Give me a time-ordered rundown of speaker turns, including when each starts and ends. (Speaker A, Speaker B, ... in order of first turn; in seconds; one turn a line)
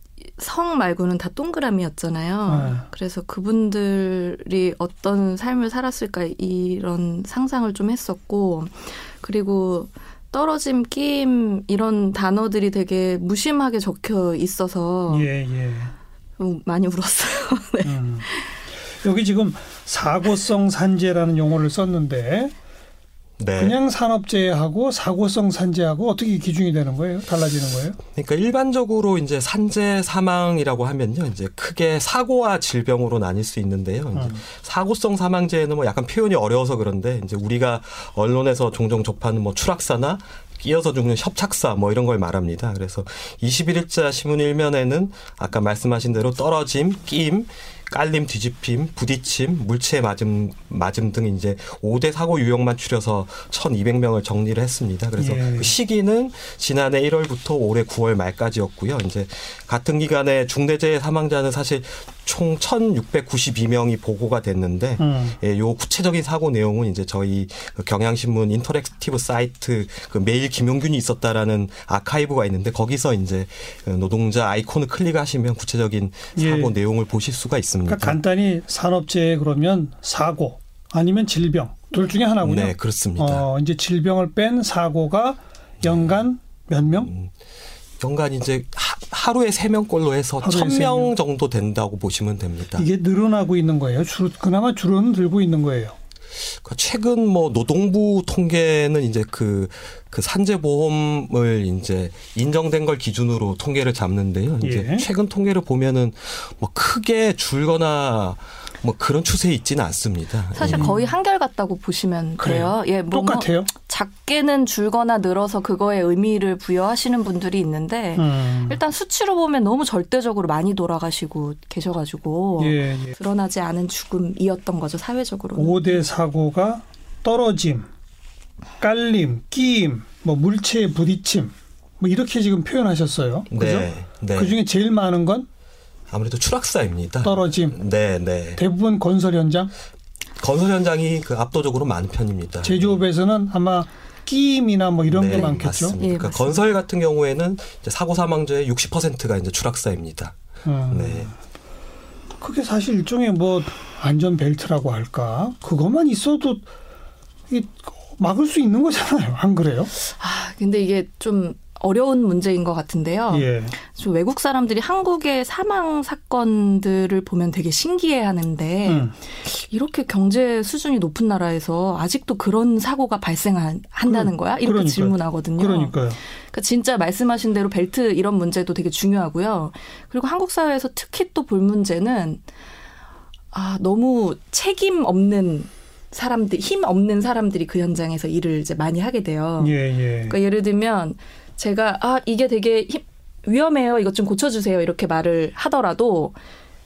Speaker A: 0.4-15.3
Speaker B: 2.5-2.8
Speaker B: 15.1-15.9
Speaker A: 16.4-18.6
Speaker B: 17.8-18.2
Speaker B: 19.0-22.5
Speaker C: 23.4-23.8
Speaker B: 23.6-28.0
Speaker C: 28.1-78.2
Speaker B: 34.1-34.4
Speaker B: 55.2-55.7
Speaker B: 65.0-65.4
Speaker B: 76.3-76.7
Speaker B: 77.8-87.1
Speaker C: 82.4-83.4
Speaker C: 85.8-86.1
Speaker C: 86.9-87.3
Speaker C: 88.0-92.9
Speaker B: 90.4-91.1
Speaker B: 92.8-96.0
Speaker C: 96.6-110.9
Speaker B: 104.6-105.1
Speaker A: 110.5-126.0
Speaker B: 110.7-111.1
Speaker B: 112.4-113.7
Speaker B: 118.2-118.8
Speaker B: 122.6-123.1
Speaker B: 125.5-127.9
Speaker B: 128.8-135.5
Speaker C: 133.5-134.6
Speaker C: 136.1-138.6
Speaker B: 137.2-137.8
Speaker B: 138.6-139.7
Speaker C: 140.4-143.0
Speaker B: 142.6-145.9
Speaker C: 145.1-150.3
Speaker A: 145.3-146.7
Speaker B: 150.6-151.3
Speaker C: 150.9-151.3
Speaker B: 152.4-156.7
Speaker B: 157.5-159.9
Speaker A: 159.9-182.4
Speaker B: 163.3-163.8
Speaker B: 168.8-169.1
Speaker B: 174.1-176.2
Speaker A: 183.5-196.4
Speaker B: 189.6-190.3